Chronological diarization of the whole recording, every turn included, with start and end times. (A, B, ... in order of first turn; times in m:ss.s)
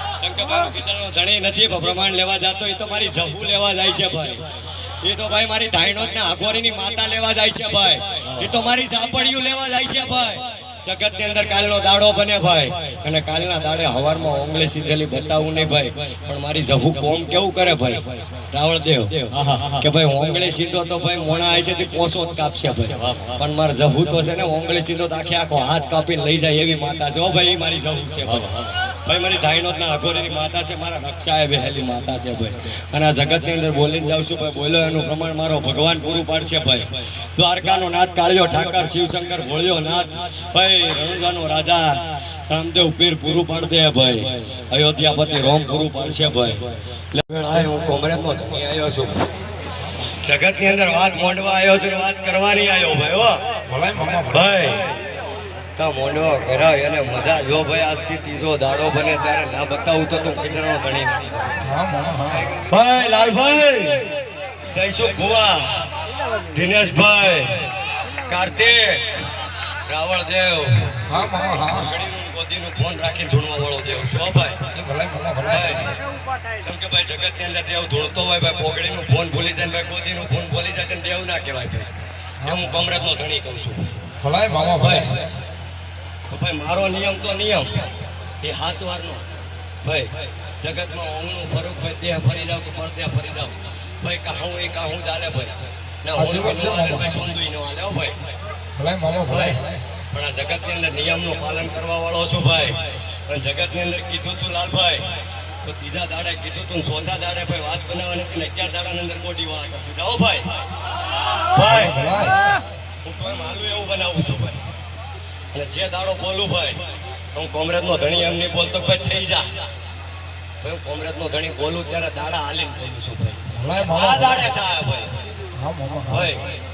0:00.1-0:49.3 A
0:50.2-0:53.4 A
0:53.7-0:54.5 B
0:54.3-0:55.0 A
0:55.8-1:01.6 A
1:01.7-1:02.5 B
1:02.6-1:04.1 A
1:04.7-1:05.9 A
1:06.5-1:07.7 A
1:08.2-1:09.2 A
1:09.8-1:14.6 A
1:11.1-1:11.9 B
1:14.7-1:15.9 B
1:15.5-1:16.0 A
1:16.6-1:21.9 A
1:22.4-1:24.0 A
1:24.2-1:25.3 B
1:24.6-1:25.2 A
1:26.3-1:29.2 A
1:29.8-1:38.2 A
1:36.2-1:37.1 B
1:38.8-1:39.8 B
1:39.2-1:50.5 A
1:51.5-1:52.2 A
1:51.7-1:52.6 B
1:53.0-1:54.6 A
1:55.5-1:56.8 A
1:57.3-1:59.7 A
2:00.6-2:05.2 A
2:03.6-2:04.5 B
2:05.6-2:06.3 B
2:06.1-2:06.6 A